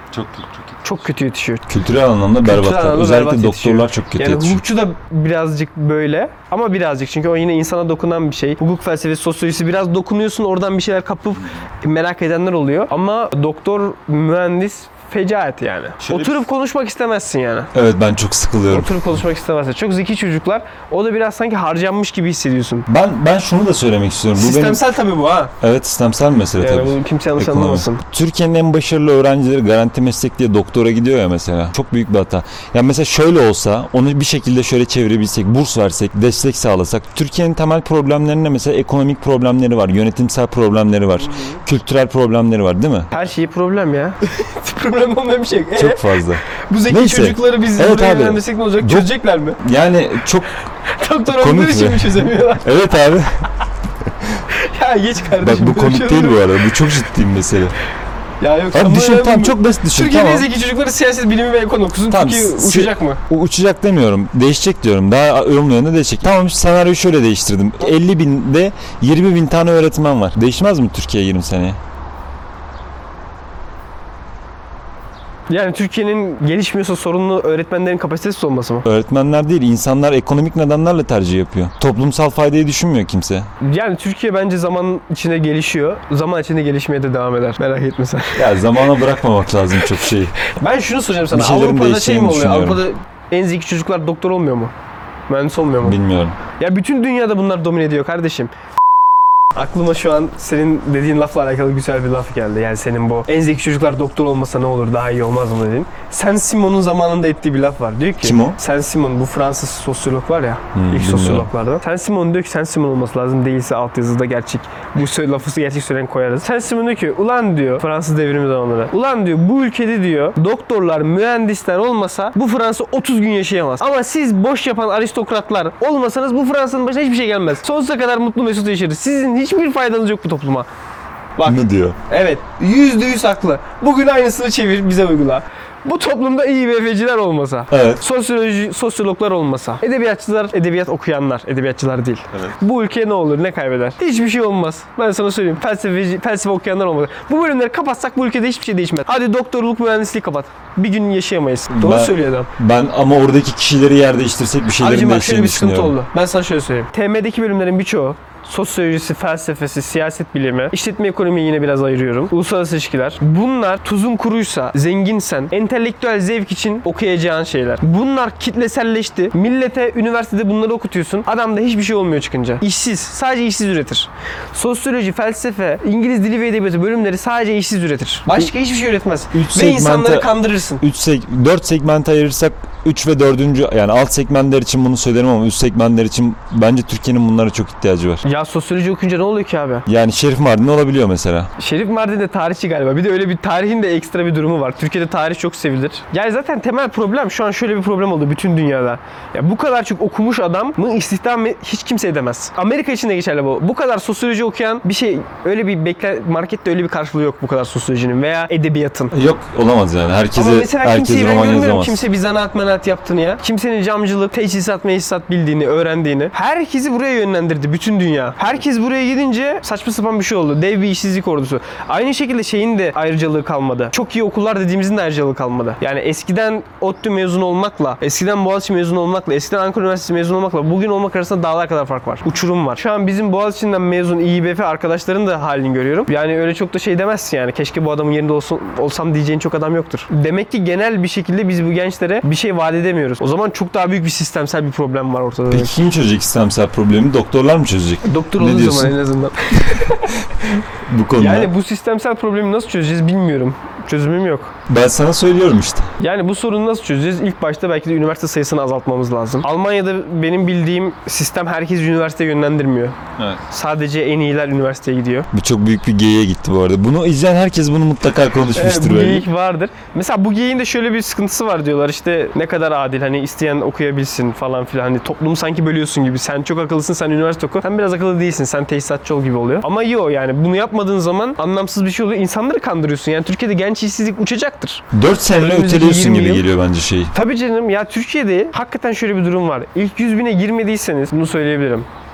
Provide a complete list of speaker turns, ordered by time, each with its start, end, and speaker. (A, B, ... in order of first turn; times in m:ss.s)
0:00.1-0:00.8 A
0:00.8-0:01.7 B
0:01.7-0:04.6 A
0:02.4-0:17.7 B
0:16.0-0:16.4 A
0:17.7-0:19.1 A
0:18.7-0:22.9 B
0:22.9-0:24.8 A
0:24.4-0:25.5 B
0:25.6-0:43.1 A
0:26.6-0:28.0 B
0:43.1-0:49.6 B
0:45.8-0:50.6 A
0:50.9-0:52.7 B
0:51.3-0:53.5 A
0:54.0-0:54.4 A
0:54.5-0:56.6 B
0:55.4-0:57.8 A
0:58.4-1:03.2 B
0:58.7-1:00.5 A
1:02.1-1:11.8 A
1:15.5-1:18.8 B
1:18.8-1:23.5 A
1:23.6-1:28.4 B
1:28.4-1:30.4 A
1:30.4-1:34.7 B
1:31.3-1:32.8 A
1:35.3-1:36.0 B
1:35.8-1:36.4 A
1:36.6-1:38.5 B
1:39.6-2:10.7 B
1:48.2-1:48.6 A
1:50.7-1:51.5 A
2:11.4-2:32.5 B
2:11.5-2:12.0 A
2:17.7-2:18.0 A
2:31.7-2:36.0 A
2:34.8-3:00.8 B
2:59.3-3:08.2 A
3:08.2-3:09.9 B
3:09.9-3:11.5 A
3:11.6-3:29.2 B
3:29.1-3:32.0 A
3:30.4-4:05.8 B
4:05.5-4:09.0 A
4:08.0-4:10.2 B
4:10.9-4:11.5 A
4:11.2-4:14.5 B
4:14.7-4:15.9 A
4:16.0-4:23.0 B
4:23.2-4:23.4 A
4:23.5-4:25.3 B
4:25.3-4:29.3 A
4:28.6-4:46.5 B
4:44.9-4:47.1 A
4:47.1-4:51.9 B